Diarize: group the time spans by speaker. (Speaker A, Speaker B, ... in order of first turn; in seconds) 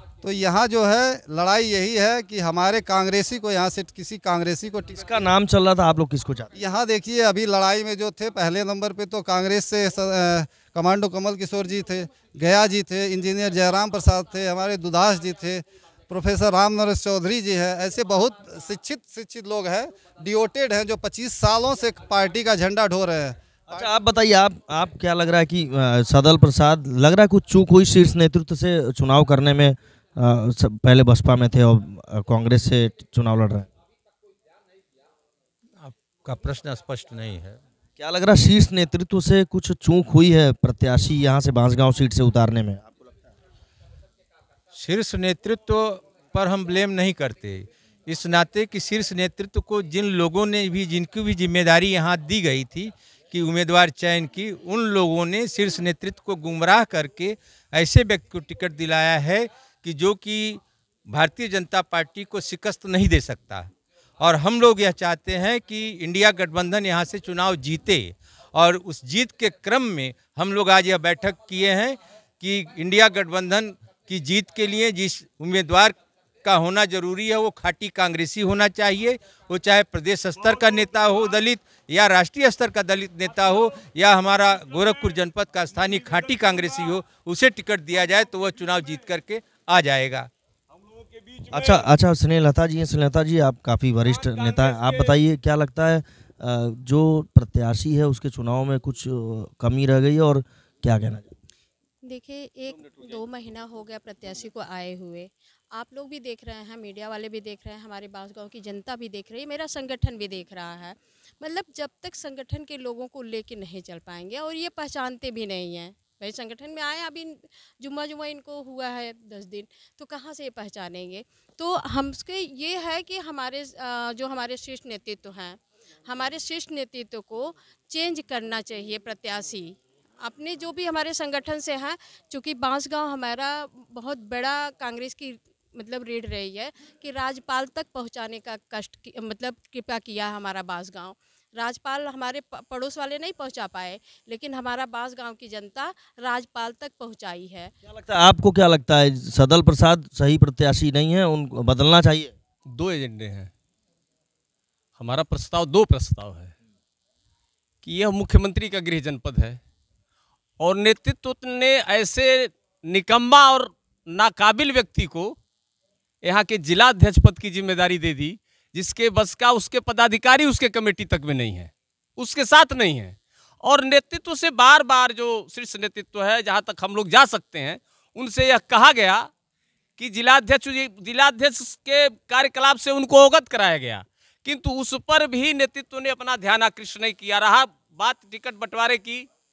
Speaker A: 0.2-5.1, 6.5-23.9
Speaker B: 5.0-6.5, 23.7-33.7, 38.0-42.9, 91.5-101.3, 147.9-152.3
Speaker C: 35.8-37.6, 44.7-63.7, 64.2-90.3
Speaker D: 102.0-147.7
Speaker E: 152.7-153.5, 155.0-156.5, 157.8-159.6, 160.6-165.4, 166.2-179.3, 180.0-189.3